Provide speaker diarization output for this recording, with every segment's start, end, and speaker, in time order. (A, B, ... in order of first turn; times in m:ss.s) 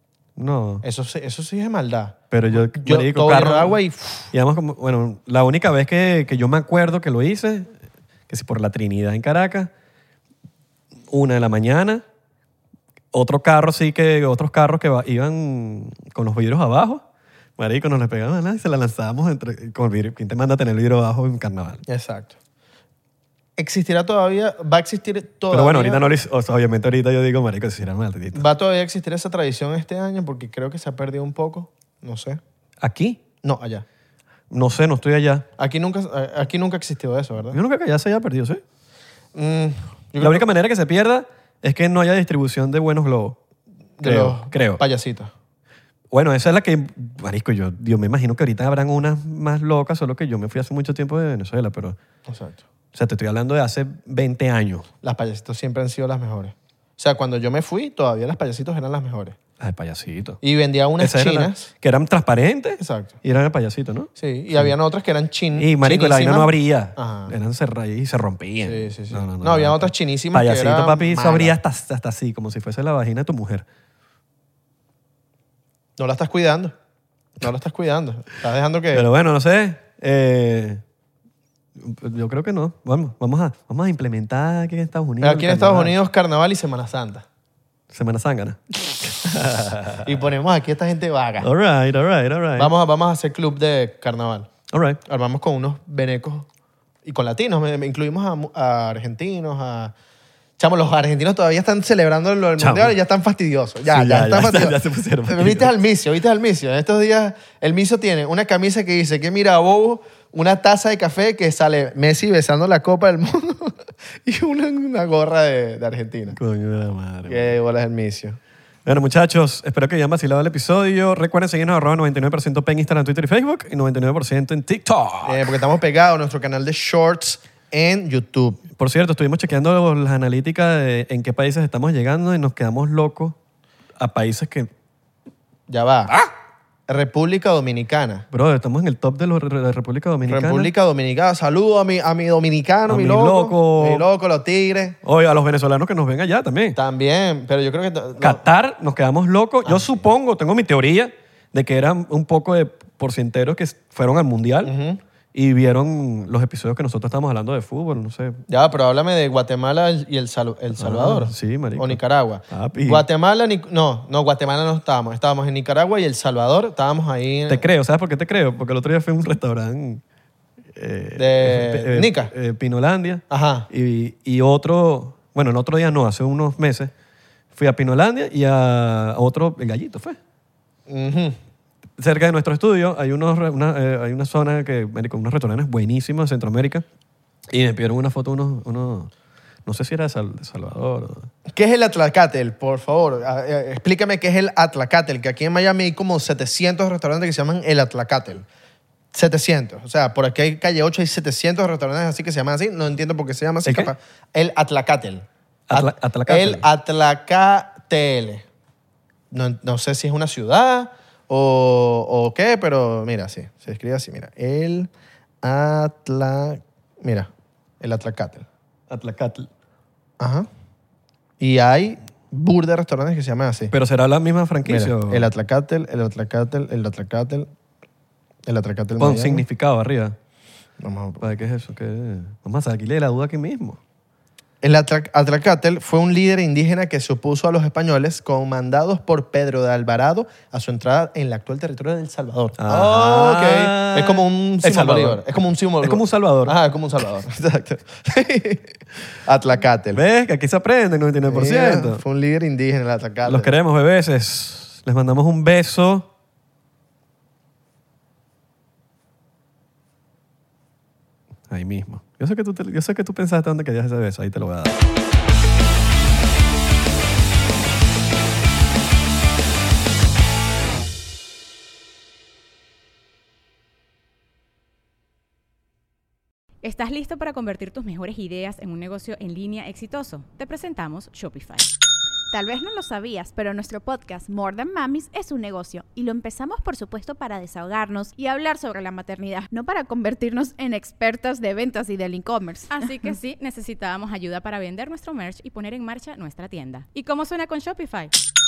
0:00.4-0:00.8 A
0:00.8-0:04.3 B
0:02.3-0:03.8 A
0:04.3-0:07.7 A
0:08.3-0:09.7 A
0:11.1-0:12.0 A
0:13.1-0:17.0 A
0:17.6-0:21.8 A
0:21.9-0:22.4 B
0:23.6-0:26.0 B
0:25.5-0:28.4 A
0:28.3-0:32.4 B
0:32.8-0:33.2 A
0:33.4-0:33.8 B
0:34.5-0:35.5 A
0:35.6-0:37.6 B
0:37.5-0:38.6 A
0:39.3-0:40.5 B
0:40.2-0:43.4 A
0:44.0-0:45.3 B
0:44.0-0:44.8 A
0:46.1-0:52.0 A
0:52.3-0:52.6 B
0:52.9-0:54.9 A
0:55.0-0:59.4 B
0:59.6-1:00.4 A
1:00.4-1:01.7 B
1:01.0-1:04.7 A
1:02.8-1:03.2 B
1:04.2-1:07.3 B
1:05.6-1:13.6 A
1:08.6-1:11.6 B
1:16.0-1:16.7 B
1:17.4-1:19.1 B
1:18.9-1:20.8 A
1:21.8-1:25.9 A
1:25.2-1:27.2 B
1:27.9-1:30.1 A
1:30.0-1:31.5 B
1:31.4-1:32.7 A
1:32.6-1:34.5 B
1:34.7-1:35.0 A
1:35.0-1:36.5 B
1:37.0-1:39.9 B
1:40.6-1:56.4 B
1:42.6-1:42.9 A
1:43.9-1:45.7 A
1:56.3-1:57.6 A
1:57.3-1:58.4 B
1:58.8-2:05.6 A
2:05.2-2:08.6 B
2:08.8-2:13.4 A
2:14.0-2:14.7 A
2:15.7-2:16.2 B
2:16.9-2:18.3 B
2:18.3-2:20.7 A
2:20.2-2:25.0 B
2:22.9-2:24.0 A
2:25.0-2:26.8 A
2:26.8-2:28.4 B
2:28.2-2:34.7 A
2:29.6-2:29.9 B
2:34.6-2:35.0 B
2:35.3-2:38.4 A
2:38.5-2:47.6 B
2:40.8-2:43.0 A
2:47.5-2:50.0 A
2:50.8-2:56.9 A
2:51.2-2:52.3 B
2:53.3-2:53.7 B
2:57.6-3:00.2 A
3:00.9-3:01.4 B
3:02.0-3:06.8 A
3:07.5-3:09.1 A
3:09.7-3:11.3 A
3:11.5-3:18.5 B
3:19.1-3:28.5 B
3:23.6-3:23.9 A
3:25.7-3:26.7 A
3:29.3-3:34.9 B
3:35.4-3:38.5 B
3:38.9-3:39.5 A
3:40.2-3:40.5 B
3:41.4-3:43.7 B
3:43.7-3:45.3 A
3:44.7-3:47.5 B
3:48.5-3:49.4 B
3:49.0-3:50.2 A
3:50.8-3:51.3 B
3:51.2-3:53.8 A
3:54.6-4:10.0 B
4:02.6-4:05.2 A
4:05.8-4:06.6 A
4:09.9-4:12.0 A
4:11.3-4:13.5 B
4:13.3-4:16.1 A
4:21.5-4:24.8 A
4:36.6-4:41.7 C
4:42.3-4:52.9 D
4:52.7-4:58.1 C